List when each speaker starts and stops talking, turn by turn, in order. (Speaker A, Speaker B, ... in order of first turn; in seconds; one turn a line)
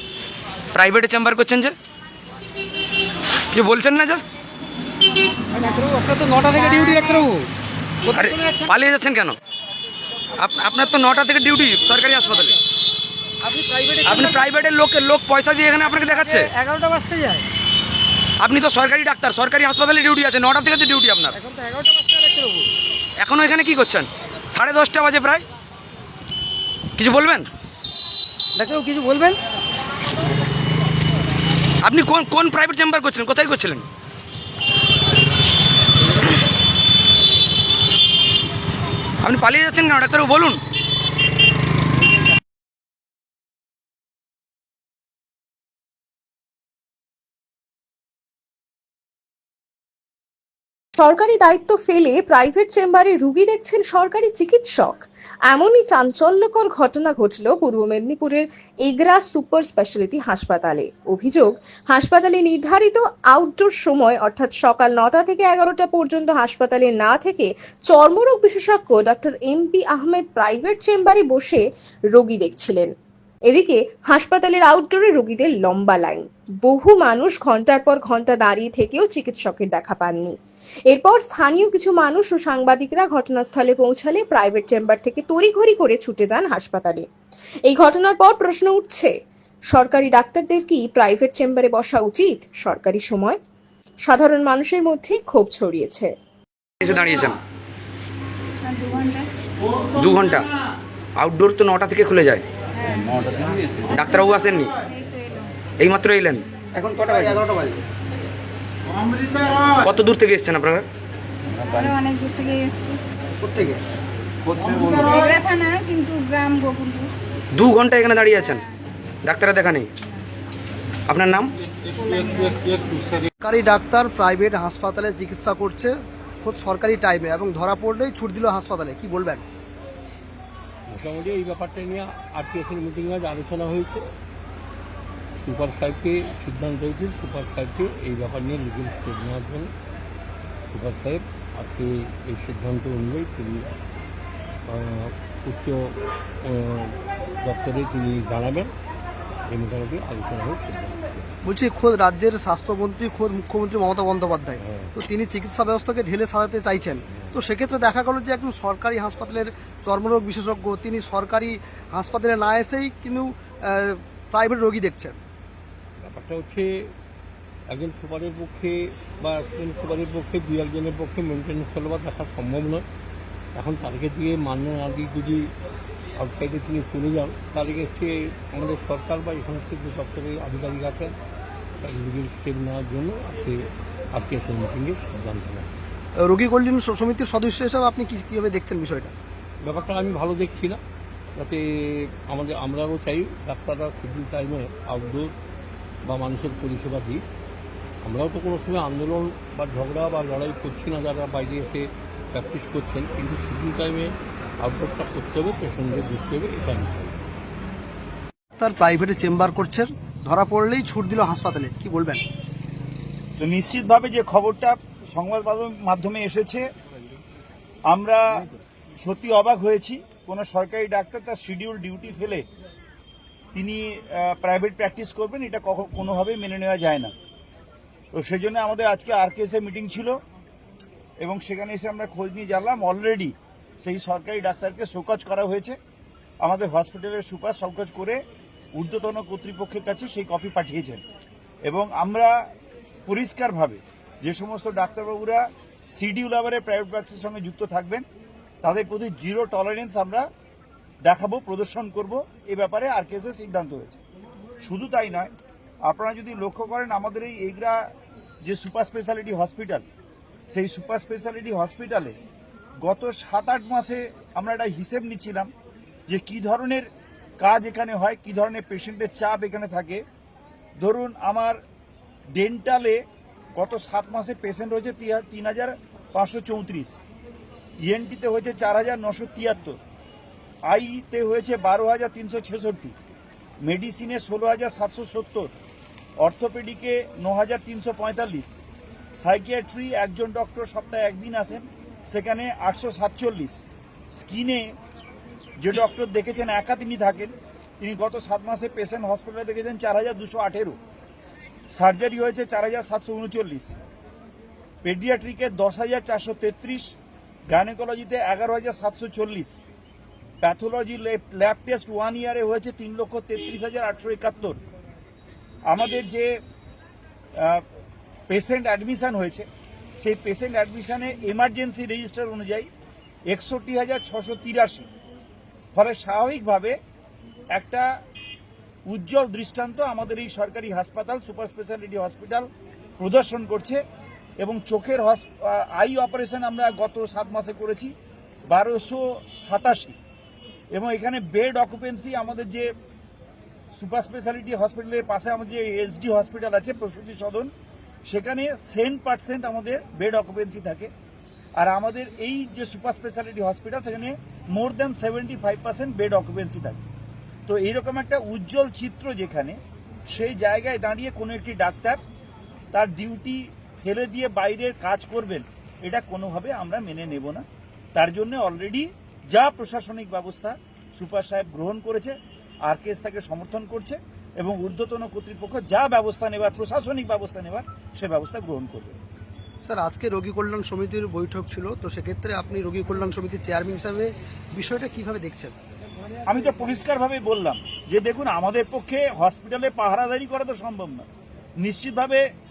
Speaker A: 0.7-1.7
Speaker A: 3.5-4.2
Speaker B: 5.5-7.5
Speaker B: 8.1-8.7
Speaker A: 8.1-9.3
Speaker A: 10.4-12.6
Speaker B: 13.4-14.7
Speaker A: 14.0-16.5
Speaker B: 15.9-17.4
Speaker A: 18.4-21.4
Speaker B: 21.3-22.6
Speaker A: 23.2-25.4
Speaker A: 27.0-27.5
Speaker B: 28.6-29.4
Speaker A: 31.8-33.8
Speaker A: 39.2-40.6
Speaker C: 51.0-72.9
Speaker C: 73.5-80.3
Speaker C: 80.9-87.1
Speaker C: 87.7-89.1
Speaker C: 89.7-93.4
Speaker C: 94.0-96.1
Speaker A: 96.8-97.4
Speaker D: 98.7-99.2
Speaker A: 99.9-100.5
Speaker A: 101.2-102.4
Speaker D: 102.8-103.4
Speaker A: 103.9-104.8
Speaker D: 104.0-105.5
Speaker A: 105.8-106.5
Speaker E: 106.9-107.7
Speaker A: 109.7-110.8
Speaker D: 111.6-113.0
Speaker E: 113.4-113.8
Speaker D: 114.7-117.1
Speaker A: 117.5-118.6
Speaker A: 119.2-119.9
Speaker A: 121.1-121.5
Speaker D: 121.9-123.0
Speaker E: 123.4-129.4
Speaker F: 130.9-134.1
Speaker F: 135.4-139.7
Speaker F: 140.7-143.7
Speaker F: 144.7-148.7
Speaker F: 149.5-151.3
Speaker E: 151.4-165.2
Speaker F: 154.6-154.9
Speaker F: 157.1-157.4
Speaker F: 166.0-166.9
Speaker F: 167.7-172.8
Speaker F: 173.5-175.5
Speaker F: 176.2-181.1
Speaker F: 181.8-185.7
Speaker E: 186.2-189.1
Speaker F: 189.6-190.8
Speaker F: 191.3-195.3
Speaker F: 196.0-197.2
Speaker F: 198.0-207.2
Speaker E: 208.6-212.2
Speaker G: 213.4-216.6
Speaker G: 217.9-218.4
Speaker G: 219.0-222.4
Speaker G: 223.5-227.1
Speaker G: 228.1-230.1
Speaker G: 231.2-235.8
Speaker G: 236.4-238.2
Speaker G: 238.8-241.0
Speaker G: 241.6-242.3
Speaker G: 243.1-248.0
Speaker G: 248.6-250.2
Speaker G: 251.0-254.0
Speaker G: 254.6-255.3
Speaker G: 255.8-257.8
Speaker G: 258.4-259.8
Speaker G: 260.5-262.1
Speaker G: 262.8-265.5
Speaker G: 266.1-266.9
Speaker G: 267.4-270.0
Speaker G: 270.8-271.6
Speaker G: 272.3-273.0
Speaker G: 273.5-277.0
Speaker G: 277.8-279.8
Speaker G: 280.7-282.9
Speaker G: 283.6-285.5
Speaker G: 286.2-288.6
Speaker G: 289.2-293.6
Speaker G: 294.1-294.7
Speaker G: 295.6-300.8
Speaker G: 301.7-303.8
Speaker G: 304.8-306.9
Speaker G: 307.5-309.6
Speaker G: 310.4-314.6
Speaker G: 315.7-316.3
Speaker G: 317.4-317.6
Speaker G: 318.3-319.4
Speaker G: 320.0-322.7
Speaker G: 323.3-324.9
Speaker G: 325.7-326.8
Speaker G: 327.5-327.9
Speaker G: 328.9-332.5
Speaker G: 333.0-333.8
Speaker G: 334.4-337.9
Speaker G: 338.5-340.0
Speaker G: 340.7-342.7
Speaker G: 343.7-347.5
Speaker G: 348.1-350.9
Speaker G: 351.6-356.8
Speaker G: 357.5-362.0
Speaker G: 362.7-367.4
Speaker G: 367.9-379.0
Speaker E: 379.6-385.5
Speaker G: 386.2-391.1
Speaker G: 391.6-392.2